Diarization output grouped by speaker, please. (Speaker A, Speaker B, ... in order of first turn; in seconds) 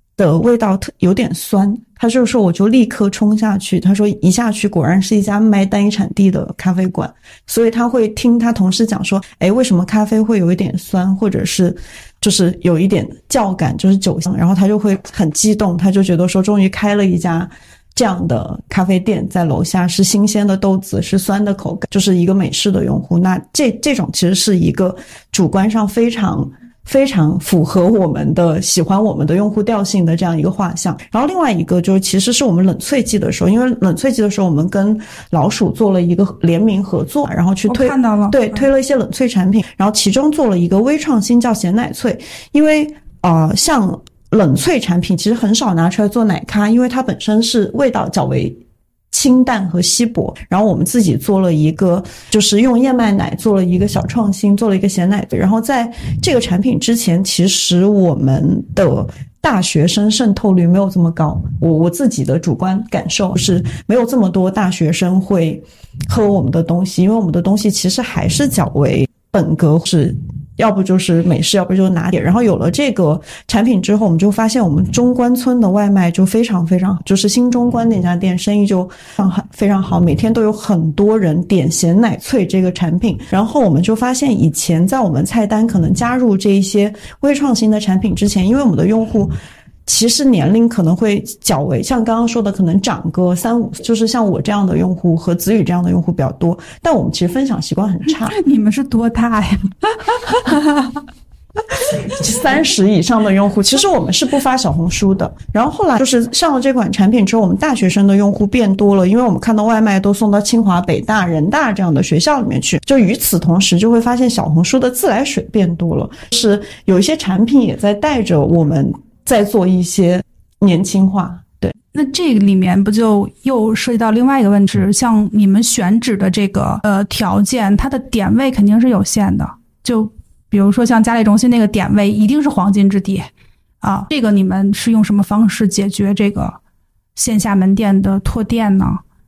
Speaker A: 0.2-48.6, 49.1-89.3, 89.8-98.4, 101.7-121.7
Speaker B: 37.7-38.4, 98.1-100.9, 121.9-133.3, 133.8-136.6, 137.1-139.0